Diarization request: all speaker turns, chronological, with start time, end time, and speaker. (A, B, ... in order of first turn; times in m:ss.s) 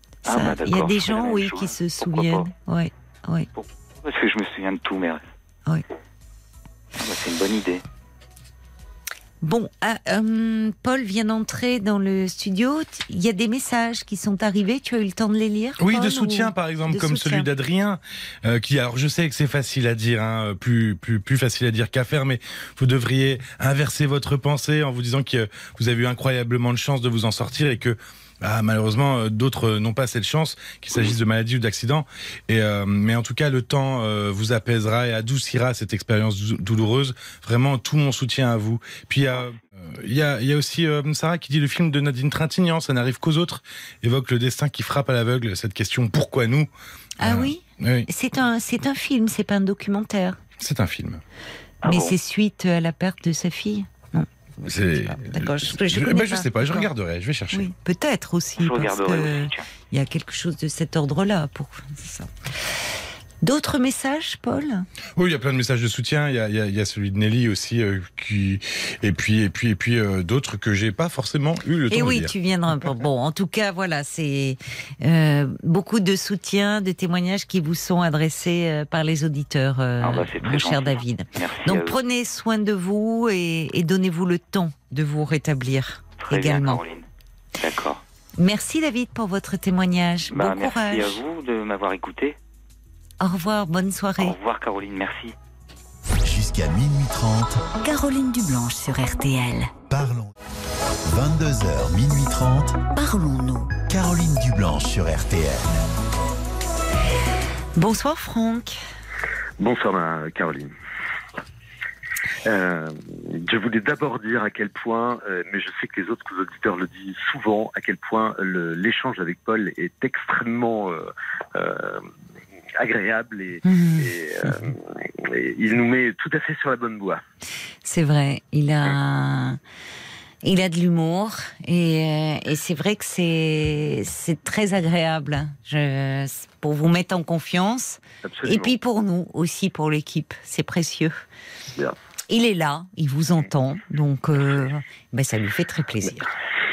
0:00.2-0:03.5 A
0:00.2-0:02.5 B
0:03.5-0:05.2 B
0:07.0-0:07.8 B
0:09.4-0:17.5 A
0:15.8-0:46.7 C
0:39.3-0:39.6 B
0:47.2-0:50.4 A
0:47.2-0:48.1 C
0:50.6-0:51.2 C
0:51.8-0:52.2 B
0:51.8-0:56.9 A
0:54.6-0:57.7 C
0:57.5-1:02.5 A
0:58.6-0:59.7 B
1:03.4-1:04.9 A
1:05.2-1:12.3 C
1:11.9-1:26.8 A
1:20.0-1:22.0 B
1:26.2-1:28.0 B
1:28.4-1:31.2 A
1:30.3-1:32.4 B
1:33.2-1:34.4 A
1:34.2-1:35.3 B
1:36.2-1:37.6 D
1:37.8-1:39.7 E
1:39.9-1:40.3 D
1:41.0-1:42.8 D
1:42.9-1:43.8 E
1:43.9-1:45.9 D
1:47.7-1:48.8 A
1:49.6-1:50.7 F
1:52.4-2:02.0 F
2:02.8-2:07.2 F
2:03.6-2:04.7 A
2:07.8-2:09.6 A
2:10.4-2:21.2 A
2:18.2-2:18.8 F
2:22.3-2:26.3 A